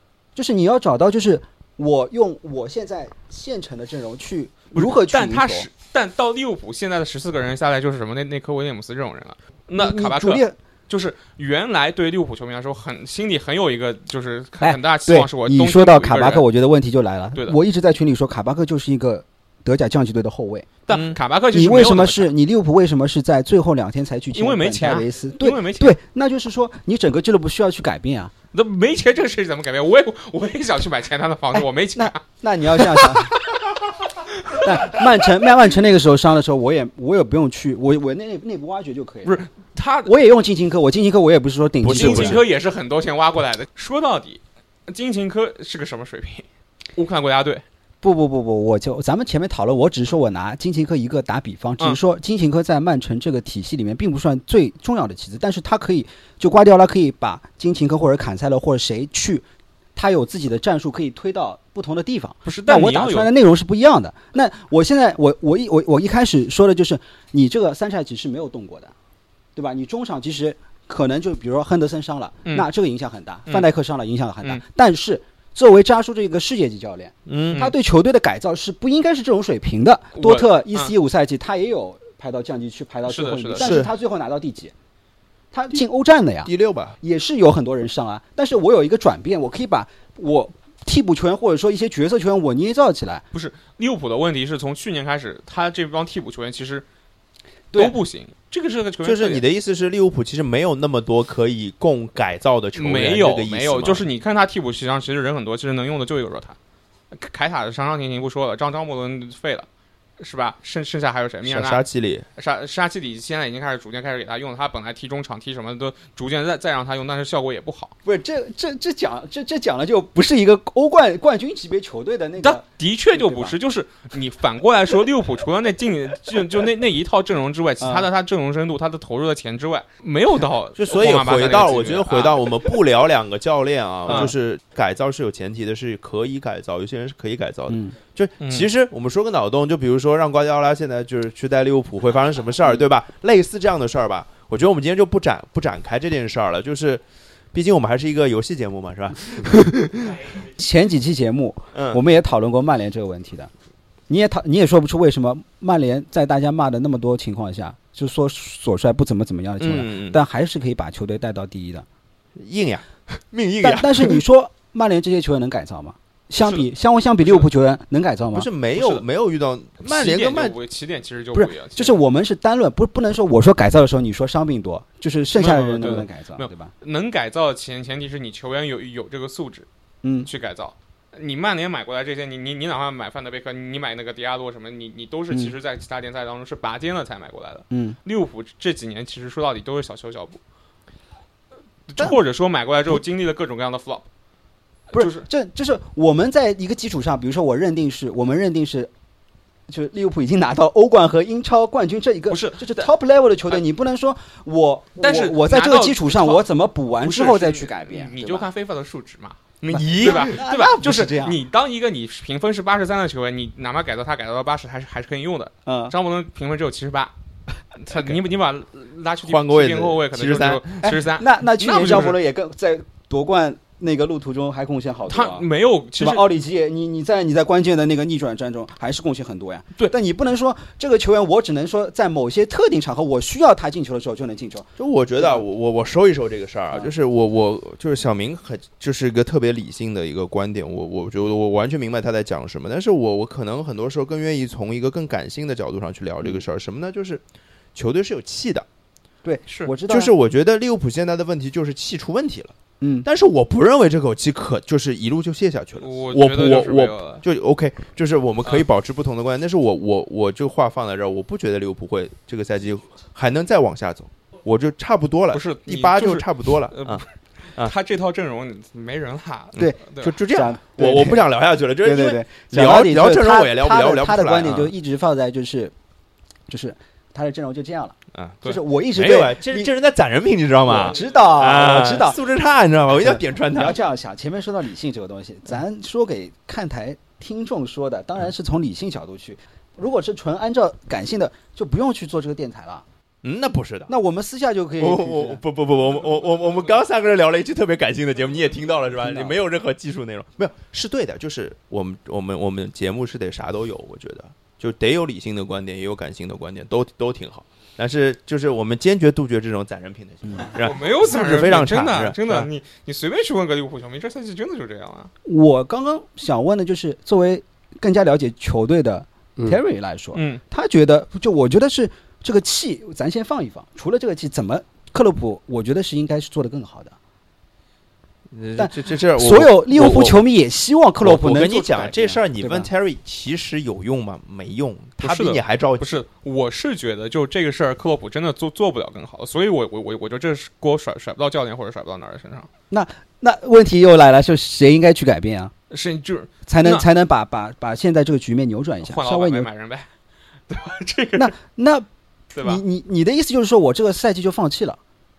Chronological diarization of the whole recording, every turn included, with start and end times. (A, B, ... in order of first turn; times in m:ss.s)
0:00.4-0:05.7 A
0:04.7-0:16.5 B
0:09.8-0:10.6 A
0:14.6-0:20.7 A
0:20.9-0:22.3 B
0:20.9-0:21.2 C
0:21.5-0:28.3 A
0:24.3-0:26.0 B
0:28.5-0:32.2 B
0:31.5-0:33.4 A
0:32.8-0:33.3 B
0:34.2-0:35.1 B
0:34.5-0:39.4 A
0:39.2-0:40.1 B
0:40.0-0:42.4 A
0:41.8-0:42.4 C
0:41.9-0:46.4 B
0:47.0-0:47.6 B
0:48.0-1:08.9 A
1:02.5-1:03.3 B
1:09.6-1:24.7 A
1:17.3-1:17.6 C
1:17.4-1:17.7 B
1:20.2-1:20.9 B
1:23.1-1:23.8 B
1:23.6-1:23.9 C
1:25.5-1:33.2 A
1:26.4-1:27.0 C
1:33.3-1:36.8 B
1:37.7-1:38.0 A
1:37.8-1:39.4 B
1:39.0-1:44.0 C
1:42.8-1:46.6 B
1:47.1-1:49.7 B
1:50.2-1:51.8 B
1:51.4-1:52.2 C
1:52.4-1:58.0 B
1:58.0-2:03.6 A
2:02.4-2:12.6 B
2:07.8-2:08.1 A
2:10.8-2:30.3 C
2:14.1-2:14.3 B
2:17.7-2:18.0 A
2:18.4-2:18.7 B
2:30.4-2:33.5 A
2:31.7-2:32.0 C
2:34.1-2:41.9 A
2:39.6-2:40.2 C
2:42.4-2:44.2 C
2:43.6-2:48.5 A
2:46.4-2:46.6 B
2:48.3-2:50.6 C
2:48.7-2:49.1 B
2:49.8-2:52.0 B
2:51.3-2:56.7 A
2:55.4-2:59.7 B
3:00.0-3:00.3 A
3:00.2-3:10.4 B
3:07.7-3:08.0 A
3:11.9-3:14.1 B
3:14.9-3:15.2 B
3:14.9-3:18.9 A
3:19.7-3:28.5 A
3:22.3-3:22.9 B
3:25.0-3:26.4 B
3:27.0-3:37.1 B
3:29.7-3:30.4 C
3:29.7-3:31.4 A
3:35.7-3:36.0 A
3:37.8-3:42.2 B
3:39.2-3:40.7 C
3:40.8-3:45.5 A
3:45.1-3:46.3 B
3:46.0-3:55.4 A
3:54.8-4:07.2 C
4:07.8-4:08.7 C
4:09.2-4:10.1 A
4:09.5-4:09.7 B
4:09.9-4:27.0 C
4:12.8-4:13.1 A
4:15.8-4:17.2 B
4:25.3-4:30.2 B
4:29.6-4:31.3 A
4:29.6-4:34.7 C
4:31.8-4:35.7 A
4:36.5-4:39.7 A
4:38.9-4:43.8 C
4:40.6-4:42.2 A
4:43.0-4:52.8 A
4:53.2-4:53.9 C
4:53.9-4:55.4 A
4:54.8-5:12.5 C
4:59.0-4:59.4 A
5:10.5-5:15.1 B
5:15.2-5:27.0 A
5:20.1-5:20.4 B
5:28.3-5:30.2 C
5:28.6-5:32.7 A
5:31.0-5:35.9 C
5:35.0-5:42.5 B
5:42.7-5:45.5 A
5:45.7-5:46.9 B
5:46.5-5:49.5 A
5:48.8-5:49.9 B
5:50.5-5:51.3 B
5:51.2-5:54.8 A
5:52.4-5:52.6 B